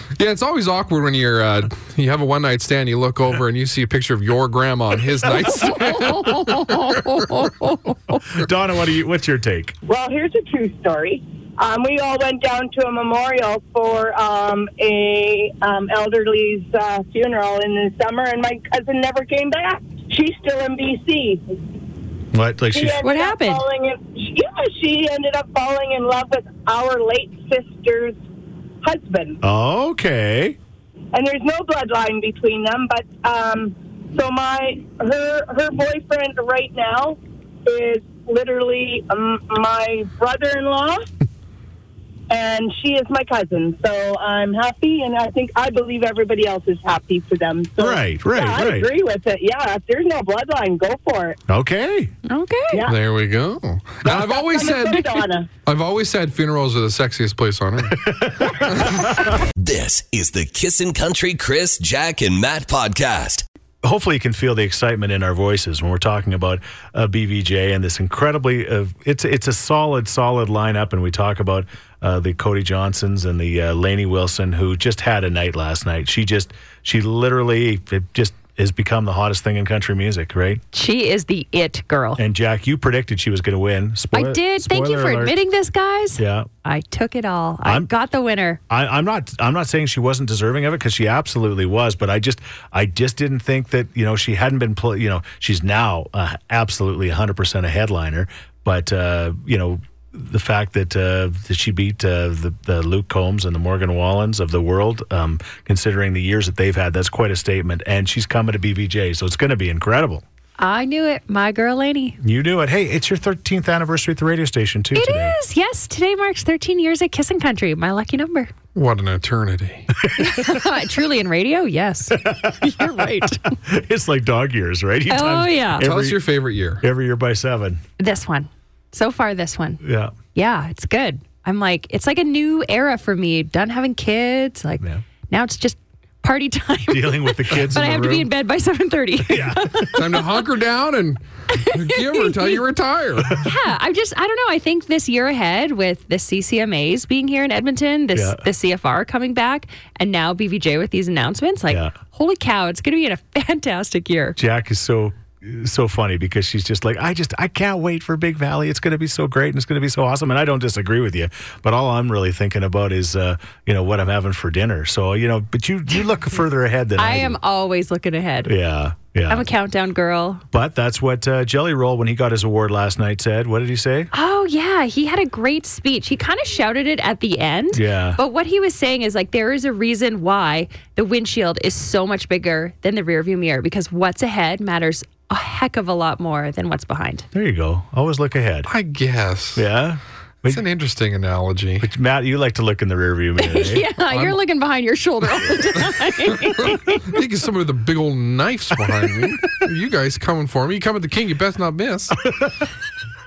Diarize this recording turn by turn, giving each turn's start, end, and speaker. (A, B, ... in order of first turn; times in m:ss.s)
0:00.2-0:06.9 A
0:05.5-0:08.3 B
0:08.3-0:09.8 C
0:09.9-0:21.4 D
0:22.3-0:23.0 C
0:22.7-0:28.2 D
0:23.0-0:23.6 B
0:28.8-0:29.4 D
0:29.4-0:30.6 C
0:31.1-0:41.0 D
0:42.3-0:51.4 D
0:47.8-0:48.9 C
0:51.5-0:52.1 C
0:52.3-0:52.9 B
0:52.9-0:58.0 A
0:54.0-0:55.5 D
0:57.9-0:59.4 C
0:59.6-1:03.4 E
1:03.8-1:20.6 C
1:20.7-1:22.2 B
1:22.2-1:25.4 C
1:24.1-1:28.6 B
1:26.2-1:26.5 C
1:27.6-1:27.9 C
1:28.7-1:50.2 C
1:50.6-1:52.2 B
1:52.2-1:55.4 C
1:55.0-1:58.5 B
1:58.8-2:00.0 A
2:00.1-2:00.8 C
2:00.2-2:03.6 B
2:02.1-2:07.8 C
2:05.1-2:05.9 B
2:05.8-2:06.8 A
2:08.0-2:09.8 B
2:09.8-2:10.1 C
2:10.4-2:20.0 B
2:16.9-2:18.3 C
2:19.3-2:20.1 C
2:19.9-2:23.4 A
2:21.5-2:22.6 B
2:23.3-2:34.4 B
2:28.1-2:28.4 C
2:34.4-2:47.4 C
2:47.0-2:48.5 B
2:48.4-2:49.5 C
2:49.3-2:50.4 B
2:50.5-2:54.1 C
2:54.1-3:07.3 B
2:57.7-2:58.2 C
3:07.3-3:08.7 C
3:08.7-3:09.7 A
3:09.6-3:10.6 C
3:10.4-3:11.9 A
3:11.8-3:13.9 C
3:13.4-3:17.2 B
3:14.1-3:14.4 A
3:16.3-3:22.2 A
3:22.2-3:22.7 C